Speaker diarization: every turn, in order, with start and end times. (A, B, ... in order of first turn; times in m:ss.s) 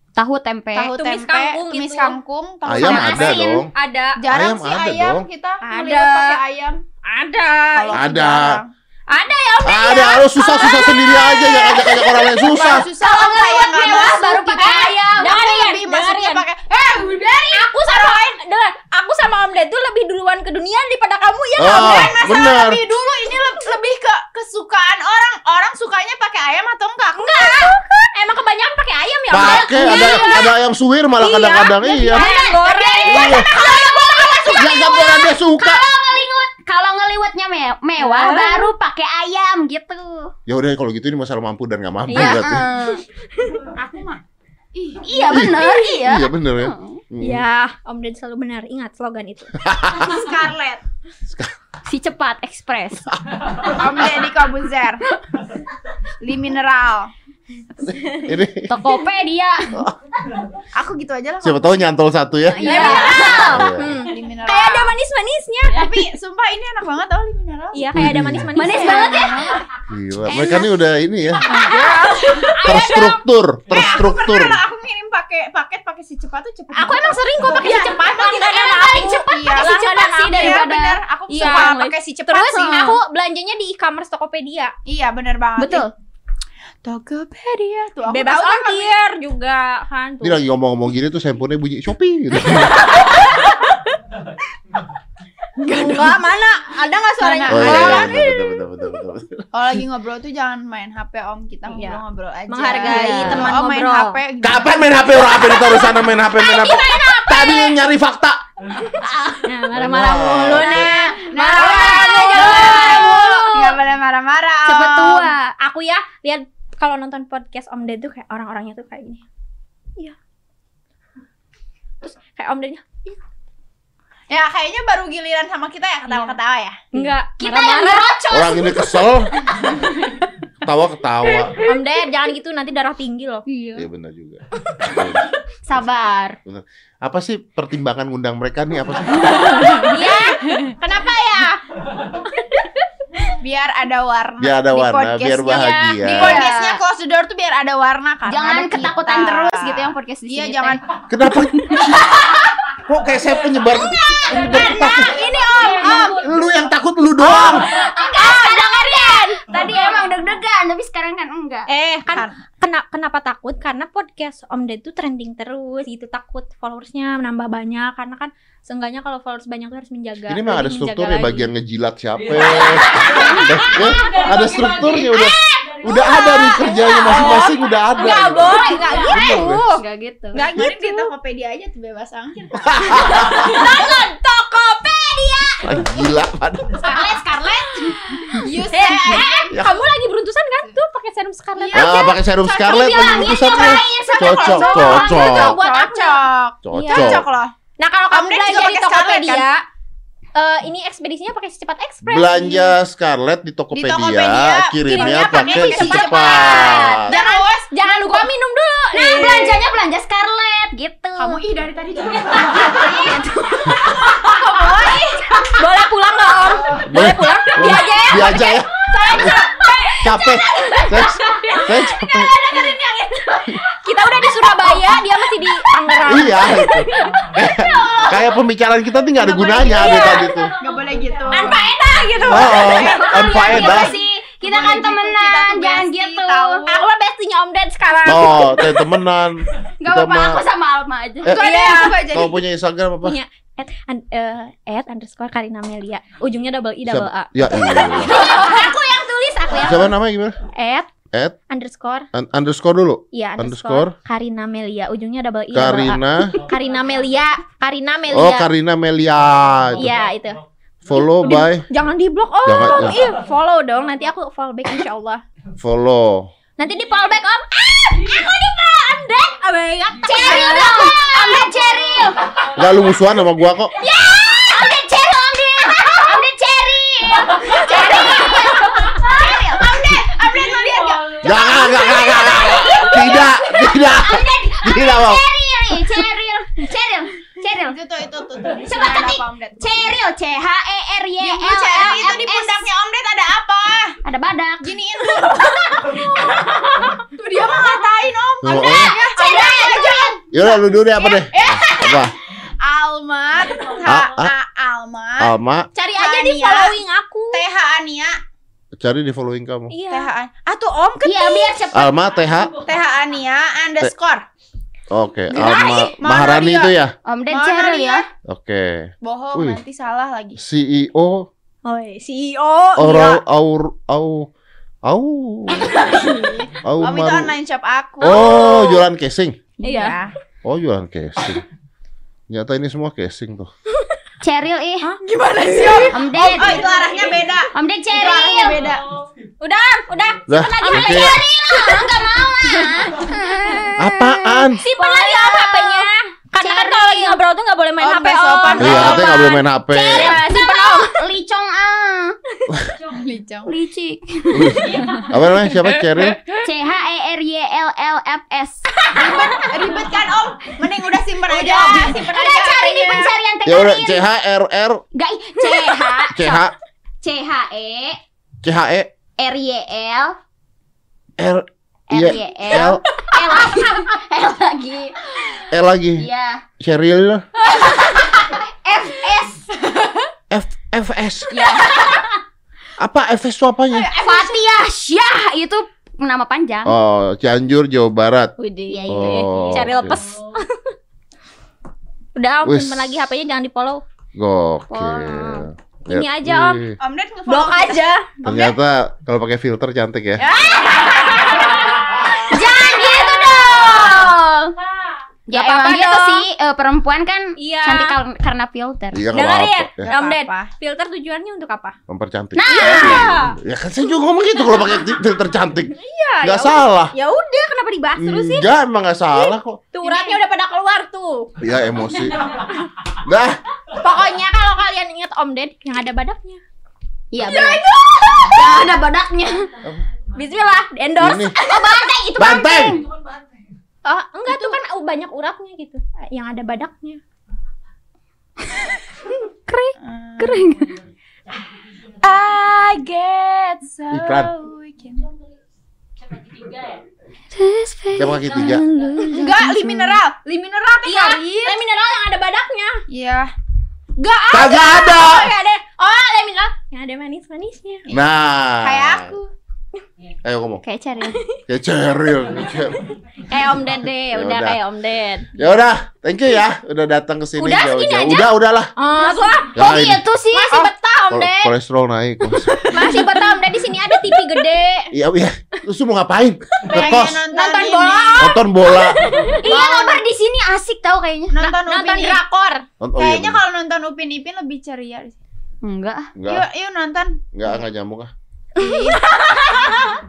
0:00.2-0:01.0 A
0:00.7-0:03.6 B
0:01.0-0:02.2 C
0:02.7-0:03.7 D
0:02.8-0:03.5 A
0:03.0-0:04.2 C
0:04.2-0:06.8 B
0:04.3-0:05.3 D
0:05.6-0:06.4 C
0:07.0-0:08.0 C
0:07.8-0:08.7 B
0:07.9-0:08.6 D
0:09.1-0:12.6 C
0:09.6-0:12.9 D
0:12.5-0:18.4 B
0:12.7-0:15.3 A
0:13.7-0:16.4 C
0:17.1-0:22.2 C
0:21.6-0:22.8 D
0:21.6-0:27.9 B
0:27.2-0:30.5 C
0:29.3-0:32.2 D
0:29.4-0:30.5 A
0:31.2-0:34.8 C
0:32.0-0:40.3 A
0:32.3-0:34.0 B
0:33.1-0:33.5 D
0:34.6-0:35.9 D
0:38.0-0:38.7 C
0:40.5-0:42.6 D
0:42.1-0:43.6 C
0:42.1-0:43.0 A
0:43.7-0:44.2 B
0:44.8-0:45.1 B
0:45.0-0:47.0 A
0:45.1-0:46.0 C
0:45.3-0:47.4 D
0:47.2-0:50.2 C
0:49.6-0:50.0 D
0:50.0-0:50.8 B
0:51.3-0:51.5 D
0:51.9-0:53.1 A
0:53.6-0:55.0 B
0:56.2-0:57.1 B
0:57.8-0:58.8 D
0:58.0-0:58.3 C
0:58.7-0:59.8 A
1:00.7-1:01.8 B
1:01.4-1:04.0 D
1:02.5-1:03.7 A
1:02.6-1:06.0 C
1:02.7-1:03.3 B
1:04.0-1:05.0 B
1:05.7-1:07.9 B
1:07.7-1:09.5 C
1:07.9-1:08.5 D
1:08.6-1:09.6 A
1:08.7-1:09.7 B
1:09.9-1:11.5 D
1:11.4-1:12.9 B
1:11.5-1:13.2 C
1:12.6-1:14.6 D
1:13.7-1:23.0 B
1:16.7-1:20.7 C
1:19.0-1:21.8 A
1:21.3-1:24.7 C
1:24.9-1:25.9 B
1:25.6-1:25.9 A
1:26.8-1:28.9 B
1:28.1-1:30.4 C
1:30.2-1:33.0 D
1:32.6-1:33.6 C
1:35.6-1:38.2 B
1:35.7-1:38.6 C
1:37.5-1:39.5 D
1:39.5-1:44.9 B
1:41.7-1:44.2 C
1:42.8-1:43.6 A
1:44.4-1:48.4 D
1:45.4-1:47.8 C
1:49.0-1:49.4 A
1:49.4-1:53.8 C
1:49.7-1:50.9 D
1:50.5-1:53.4 A
1:50.9-1:55.3 B
1:54.7-1:55.4 A
1:55.4-1:59.2 C
2:02.0-2:03.2 C
2:04.3-2:06.8 B
2:06.9-2:08.2 C
2:06.9-2:09.1 A
2:08.3-2:09.3 D
2:10.6-2:11.6 D
2:11.6-2:13.4 C
2:13.5-2:13.9 A
2:13.8-2:15.3 D
2:15.7-2:16.4 A
2:16.4-2:19.8 D
2:19.6-2:21.4 B
2:19.8-2:20.4 A
2:19.9-2:21.6 C
2:22.4-2:22.7 C
2:23.4-2:30.8 B
2:24.4-2:26.5 D
2:26.1-2:26.8 A
2:28.3-2:30.8 A
2:31.1-2:32.2 D
2:31.7-2:32.5 A
2:32.9-2:35.3 D
2:33.7-2:35.9 A
2:34.2-2:36.3 C
2:34.3-2:36.5 E
2:35.3-2:36.2 B
2:36.2-2:37.7 D
2:37.2-2:39.4 B
2:37.2-2:41.7 A
2:38.2-2:38.5 C
2:39.7-2:40.1 C
2:41.7-2:51.5 C
2:42.1-2:42.4 B
2:50.3-2:59.6 D
2:52.1-2:59.2 E
2:53.3-2:54.1 A
2:54.8-2:59.8 C
2:59.0-3:00.4 A
3:00.3-3:01.1 C
3:00.3-3:03.4 B
3:02.6-3:03.5 D
3:03.0-3:05.6 C
3:03.4-3:05.5 A
3:05.6-3:06.8 D
3:06.8-3:12.0 C
3:06.9-3:09.7 B
3:06.9-3:07.5 A
3:09.5-3:09.8 D
3:11.6-3:17.5 B
3:11.7-3:15.6 D
3:12.5-3:17.2 C
3:13.7-3:14.2 A
3:16.6-3:17.2 D
3:17.8-3:19.6 C
3:18.1-3:19.5 B
3:20.4-3:22.8 C
3:22.0-3:27.2 D
3:23.7-3:28.2 B
3:24.9-3:29.7 C
3:28.9-3:31.4 A
3:31.2-3:35.5 B
3:32.8-3:33.1 A
3:32.8-3:33.2 C
3:34.4-3:48.1 C
3:36.8-3:39.4 D
3:40.0-3:42.5 D
3:40.1-3:41.6 A
3:42.4-3:42.9 A
3:44.4-3:44.8 A
3:46.0-3:50.5 D
3:47.0-3:48.0 E
3:49.2-3:50.6 C
3:50.6-3:51.7 B
3:50.7-3:52.3 E
3:51.3-3:54.0 C
3:52.2-3:56.6 A
3:52.3-3:53.9 D
3:52.5-3:56.8 B
3:56.7-3:58.8 C
3:58.0-4:00.5 D
3:59.8-4:01.3 A
4:01.3-4:02.4 B
4:01.4-4:02.2 C
4:02.1-4:03.2 D
4:03.0-4:09.9 C
4:06.9-4:08.2 D
4:08.0-4:09.7 A
4:09.6-4:10.4 D
4:10.5-4:10.9 C
4:11.5-4:12.1 C
4:12.1-4:14.0 D
4:13.1-4:18.5 C
4:15.5-4:16.4 D
4:16.5-4:17.3 E
4:18.1-4:20.0 D
4:19.7-4:20.4 C
4:20.8-4:21.7 D
4:20.9-4:25.2 C
4:22.4-4:23.0 D
4:25.6-4:26.3 D
4:26.6-4:31.7 C
4:26.7-4:27.1 E
4:28.0-4:28.3 E
4:30.0-4:33.0 E
4:30.1-4:32.3 A
4:30.2-4:30.7 B
4:32.6-4:33.7 D
4:33.8-4:40.0 A
4:37.6-4:38.8 C
4:37.6-4:38.4 B
4:38.9-4:39.4 E
4:39.1-4:41.7 B
4:40.2-4:41.8 E
4:41.2-4:45.2 D
4:41.4-4:47.8 A
4:47.5-4:49.9 B
4:48.6-4:52.7 A
4:51.2-4:54.0 B
4:54.0-4:54.8 A
4:54.6-5:05.3 B
4:55.3-4:56.9 C
4:58.4-4:59.0 D
4:58.5-5:00.2 A
5:00.3-5:02.1 D
5:03.4-5:04.1 E
5:03.9-5:04.3 D
5:05.2-5:05.7 D
5:05.8-5:07.4 C
5:05.9-5:06.8 B
5:07.3-5:08.2 B
5:08.8-5:09.7 D
5:09.7-5:10.1 C
5:09.9-5:11.7 B
5:11.0-5:11.9 A
5:11.7-5:12.5 D
5:11.9-5:13.2 E
5:12.6-5:14.3 B
5:14.9-5:17.0 D
5:15.3-5:18.0 B
5:15.3-5:15.9 C
5:17.0-5:18.0 A
5:18.2-5:19.6 D
5:19.0-5:20.4 B
5:20.4-5:21.3 D
5:21.6-5:23.2 C
5:22.8-5:24.3 D
5:24.8-5:25.8 D
5:25.8-5:28.6 B
5:26.6-5:27.3 D
5:28.0-5:29.4 D
5:28.1-5:28.8 C
5:29.6-5:30.0 C
5:29.6-5:30.2 B
5:29.7-5:29.9 A
5:30.4-5:31.4 D
5:32.3-5:33.5 D
5:34.2-5:34.9 A
5:34.8-5:37.0 C
5:35.5-5:38.8 B
5:35.6-5:36.8 A
5:36.6-5:37.2 E
5:37.5-5:38.6 A
5:38.0-5:38.4 C
5:38.6-5:39.1 E
5:39.4-5:43.1 C
5:40.3-5:41.2 D
5:40.5-5:47.2 A
5:43.8-5:44.6 D
5:44.6-5:49.2 C
5:47.8-5:49.4 B
5:48.6-5:50.2 D
5:49.7-5:51.0 C
5:49.8-5:52.2 A
5:52.6-5:53.1 E
5:52.9-5:53.6 B
5:53.4-5:54.9 A
5:54.3-5:56.2 D
5:54.5-5:55.1 E
5:56.4-5:58.7 A
5:58.7-5:59.4 C
5:58.9-6:03.1 B
6:01.3-6:04.0 A
6:01.7-6:02.1 C
6:03.4-6:04.8 D
6:04.9-6:06.4 A
6:05.4-6:06.2 C
6:06.1-6:06.5 D
6:07.0-6:08.0 A
6:08.4-6:08.9 D
6:09.2-6:10.2 A
6:11.2-6:12.8 D
6:11.9-6:16.4 A
6:12.6-6:13.1 C
6:15.5-6:16.1 D
6:16.6-6:17.2 D
6:17.4-6:19.6 A
6:20.3-6:21.3 D
6:21.3-6:22.1 A
6:22.8-6:23.9 D
6:23.7-6:24.4 B
6:23.9-6:26.8 A
6:26.6-6:28.3 D
6:28.4-6:30.6 C
6:28.7-6:29.5 A
6:28.9-6:30.0 D
6:29.4-6:30.4 E
6:32.2-6:33.8 C
6:32.4-6:32.9 D
6:34.2-6:36.8 D
6:34.7-6:35.5 A
6:35.9-6:36.7 C
6:36.8-6:37.8 B
6:37.3-6:38.5 C
6:38.2-6:40.3 D
6:40.2-6:44.1 C
6:40.5-6:42.1 E
6:40.7-6:41.2 A
6:42.0-6:44.6 A
6:44.6-6:45.0 E
6:45.3-6:49.0 A
6:45.3-6:46.3 C
6:47.4-6:48.0 C
6:48.9-6:49.9 D
6:49.1-6:51.8 C
6:49.8-6:50.5 B
6:51.9-6:56.9 D
6:52.4-6:53.1 A
6:52.5-6:53.4 C
6:55.7-6:58.5 C
6:58.0-6:59.6 D
6:59.1-7:01.3 C
6:59.8-7:00.2 B
7:01.4-7:02.3 D
7:02.0-7:02.4 E
7:03.0-7:03.4 D
7:03.8-7:06.4 C
7:07.1-7:09.5 A
7:07.2-7:08.6 C
7:09.6-7:10.5 E
7:10.2-7:11.9 C
7:11.0-7:11.4 D
7:11.4-7:12.8 A
7:12.2-7:12.8 D
7:12.7-7:13.5 E
7:13.8-7:17.0 C
7:14.3-7:14.6 B
7:19.5-7:20.7 A
7:19.8-7:20.5 B
7:20.5-7:22.3 E
7:22.0-7:25.0 B
7:23.9-7:24.3 D
7:25.0-7:25.4 E
7:26.0-7:26.8 E
7:27.3-7:30.0 A
7:28.0-7:28.6 D
7:28.2-7:29.0 E
7:29.1-7:31.6 B
7:30.3-7:32.8 C
7:32.9-7:33.3 B
7:34.0-7:37.8 C
7:34.3-7:35.3 D
7:37.8-7:38.1 B
7:37.9-7:39.2 D
7:38.6-7:39.3 B
7:40.2-7:40.6 D
7:40.6-7:41.2 A
7:41.5-7:42.8 D
7:42.3-7:42.6 E
7:42.8-7:45.3 C
7:44.1-7:44.6 D
7:45.3-7:48.7 D
7:47.4-7:49.5 C
7:49.2-7:49.5 E
7:49.5-7:50.7 A
7:49.5-7:50.0 D
7:50.3-7:51.5 C
7:51.1-7:52.7 D
7:52.7-7:54.9 C
7:54.9-7:57.2 D
7:56.7-7:58.4 B
7:56.8-7:59.8 C
7:58.2-7:59.0 D
7:59.2-8:00.0 B
7:59.4-8:01.4 A
8:01.3-8:02.2 B
8:01.4-8:02.6 C
8:02.8-8:03.4 D
8:03.0-8:05.2 B
8:05.6-8:06.1 A
8:06.2-8:06.5 D
8:06.3-8:07.2 B
8:07.3-8:08.1 D
8:08.6-8:09.0 B
8:08.6-8:10.0 C